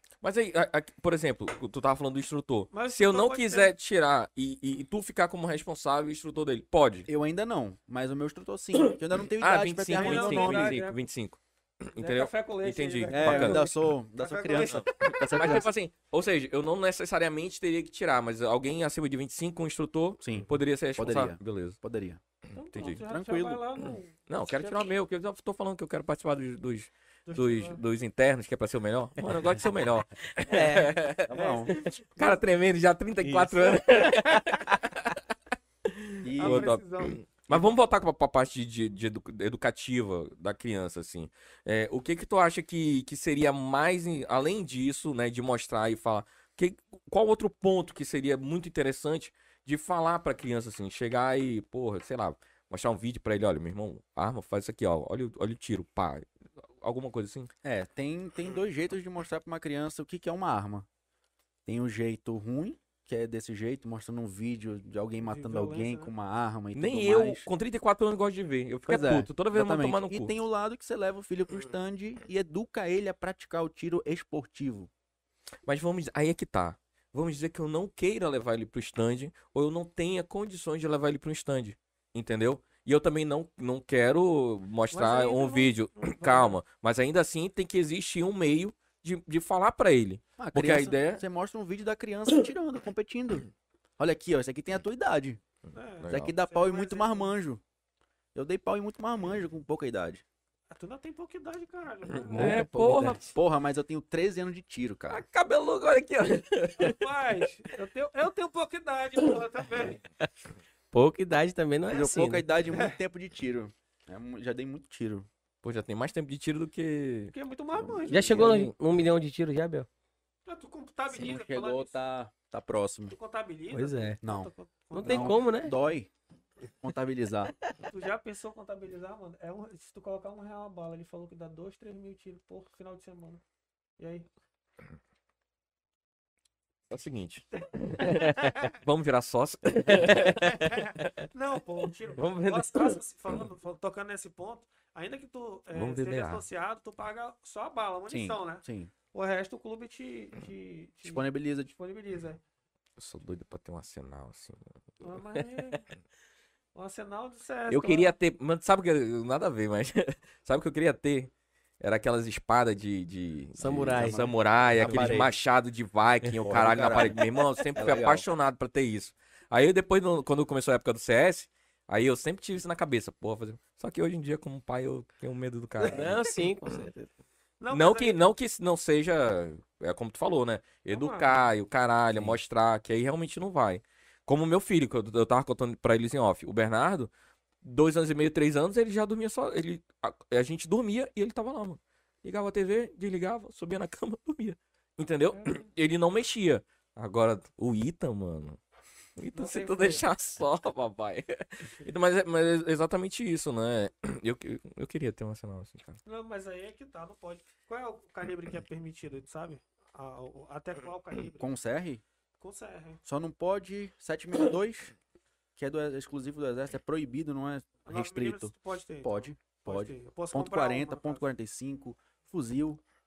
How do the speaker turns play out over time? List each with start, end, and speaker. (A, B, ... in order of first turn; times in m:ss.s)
0:00.2-0:07.1 A
0:02.7-0:03.7 B
0:07.1-0:10.8 C
0:08.8-0:13.7 A
0:09.9-0:11.0 B
0:12.0-0:15.6 B
0:13.1-0:15.7 C
0:14.6-0:21.8 A
0:20.2-0:22.2 C
0:22.5-0:24.9 B
0:22.7-0:23.0 A
0:23.0-0:23.6 C
0:24.3-0:35.2 A
0:27.3-0:27.8 B
0:30.5-0:30.9 D
0:31.3-0:31.8 C
0:31.3-0:31.8 B
0:33.2-0:34.8 D
0:35.8-0:57.5 A
0:36.2-0:36.8 C
0:36.4-0:37.2 B
0:57.6-1:00.9 C
1:01.7-1:07.5 C
1:05.2-1:06.1 B
1:06.7-1:10.3 A
1:08.9-1:14.9 C
1:15.7-1:31.2 A
1:24.9-1:26.6 B
1:30.4-1:33.5 C
1:34.0-1:35.4 C
1:35.7-1:37.3 B
1:36.0-1:36.3 A
1:36.1-1:37.6 C
1:38.4-1:40.2 C
1:40.7-1:42.7 B
1:42.2-1:43.3 D
1:42.3-1:43.4 A
1:43.4-1:45.2 C
1:45.1-1:47.1 A
1:46.8-1:50.0 B
1:50.9-1:52.4 D
1:51.9-1:55.3 C
1:52.7-1:53.0 B
1:55.6-1:57.3 A
1:57.3-1:58.7 B
1:57.8-1:58.7 C
1:58.1-1:59.9 D
1:58.4-1:58.7 A
2:00.5-2:02.0 B
2:01.1-2:03.2 C
2:03.1-2:05.5 B
2:03.7-2:04.2 D
2:04.2-2:06.1 C
2:04.9-2:05.8 D
2:06.8-2:07.5 C
2:07.8-2:13.4 B
2:14.0-2:14.3 B
2:16.9-2:20.6 A
2:17.5-2:18.8 B
2:19.8-2:21.1 D
2:20.5-2:32.4 B
2:22.2-2:23.0 D
2:25.7-2:26.4 A
2:28.1-2:28.9 C
2:31.0-2:31.7 C
2:33.0-2:35.5 A
2:35.0-2:35.8 B
2:36.8-2:38.2 B
2:37.7-2:56.3 A
2:43.6-2:45.2 D
2:43.6-2:45.4 C
2:46.2-2:47.4 D
2:46.4-2:48.3 C
2:55.8-2:57.1 D
2:57.6-2:58.2 B
2:57.7-3:18.6 A
3:00.9-3:01.5 B
3:15.3-3:15.7 B
3:19.2-3:26.0 A
3:19.3-3:20.1 B
3:26.1-3:31.5 B
3:31.4-3:32.0 C
3:32.4-3:33.0 B
3:33.0-3:34.9 C
3:35.6-3:42.8 C
3:37.8-3:41.3 B